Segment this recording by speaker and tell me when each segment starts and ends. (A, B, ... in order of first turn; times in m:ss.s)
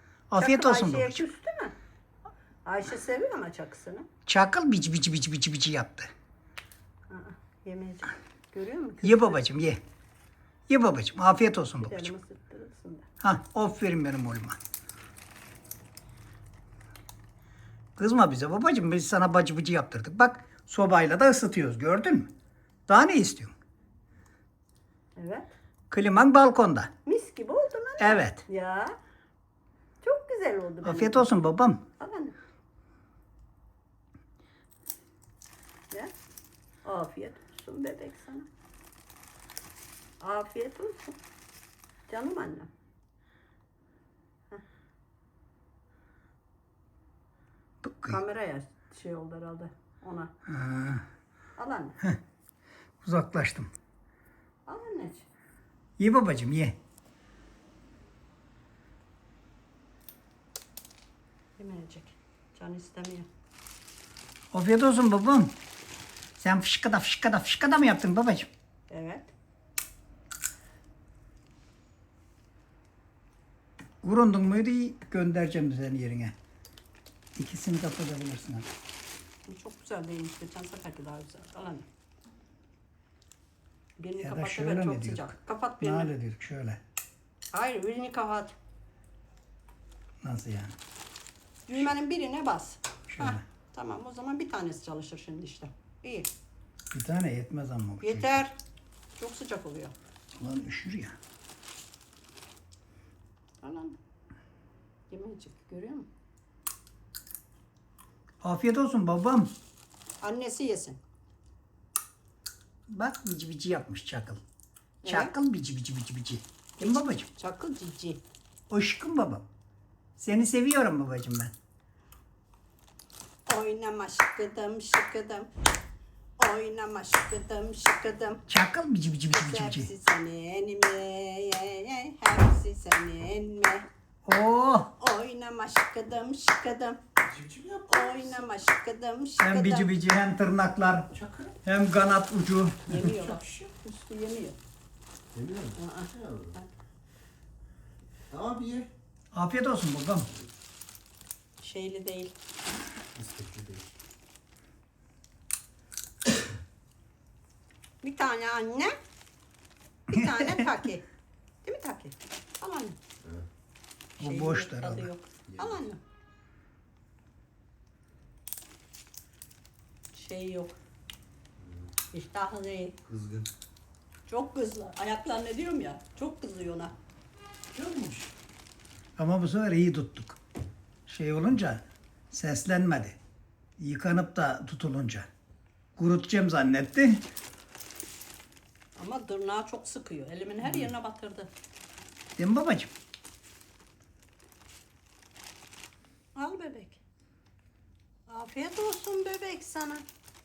0:00.3-0:01.2 A
0:00.4-0:01.7 B
0:02.6-0:04.0 B
0:04.2-0:06.1 A
0:07.1-0:09.4 B
0:09.0-0:09.8 A
0:10.7-0:12.1 A
0:11.8-0:13.0 B
0:13.2-0:14.6 A
0:18.0-0:22.3 A
0:22.9-0:23.5 A
0:25.2-0:25.5 B
0:25.9-0:26.9 A
0:27.0-0:29.0 B
0:28.0-0:28.4 A
0:30.0-0:31.3 B
0:30.8-0:31.8 A
0:32.0-0:32.3 B
0:36.8-0:38.5 B
0:40.2-0:41.2 B
0:42.1-0:42.7 B
0:47.8-0:48.2 A
0:48.1-0:50.3 B
0:50.5-0:51.0 A
0:51.6-0:52.0 B
0:53.0-0:53.7 A
0:54.6-0:55.3 B
0:56.0-0:56.8 A
1:01.6-1:03.3 B
1:04.5-1:05.5 A
1:06.4-1:08.5 A
1:08.9-1:09.3 B
1:14.0-1:16.3 A
1:17.4-1:18.7 A
1:19.4-1:21.9 B
1:24.0-1:26.1 B
1:24.2-1:25.3 A
1:25.8-1:26.8 A
1:27.5-1:28.5 B
1:30.2-1:30.8 A
1:31.7-1:36.3 B
1:33.1-1:33.4 A
1:36.9-1:38.4 A
1:38.0-1:38.6 B
1:39.2-1:39.9 B
1:40.3-1:41.1 A
1:43.6-1:44.0 B
1:45.1-1:46.1 B
1:48.4-1:49.5 A
1:50.2-1:51.0 B
1:52.9-1:54.4 A
1:55.0-1:55.3 B
1:55.0-1:57.3 A
1:56.8-1:58.2 B
1:58.7-1:59.4 A
2:00.2-2:01.5 A
2:03.5-2:05.5 B
2:06.4-2:08.4 B
2:08.5-2:09.9 A
2:09.3-2:13.9 B
2:14.2-2:14.9 A
2:15.0-2:17.0 B
2:17.2-2:18.4 C
2:17.9-2:19.9 B
2:19.4-2:21.1 A
2:21.1-2:21.6 C
2:21.6-2:23.4 A
2:22.8-2:24.6 B
2:25.3-2:26.5 C
2:25.8-2:26.7 B
2:28.3-2:28.9 C
2:29.3-2:30.3 A
2:31.6-2:32.3 B
2:33.2-2:33.9 C
2:38.0-2:38.9 B
2:40.1-2:41.0 B
2:40.1-2:40.7 A
2:41.6-2:43.0 B
2:44.2-2:45.1 A
2:44.2-2:46.0 B
2:45.5-2:45.8 C
2:50.1-2:50.8 B
2:52.1-2:52.9 B
2:53.0-2:53.5 C
2:54.3-2:56.9 B
2:57.7-2:58.3 C
2:59.2-3:00.4 A
3:01.1-3:03.2 A
3:03.8-3:05.3 A
3:06.0-3:07.2 A
3:09.0-3:11.5 B
3:12.4-3:12.9 A
3:16.4-3:17.0 B
3:18.3-3:20.0 B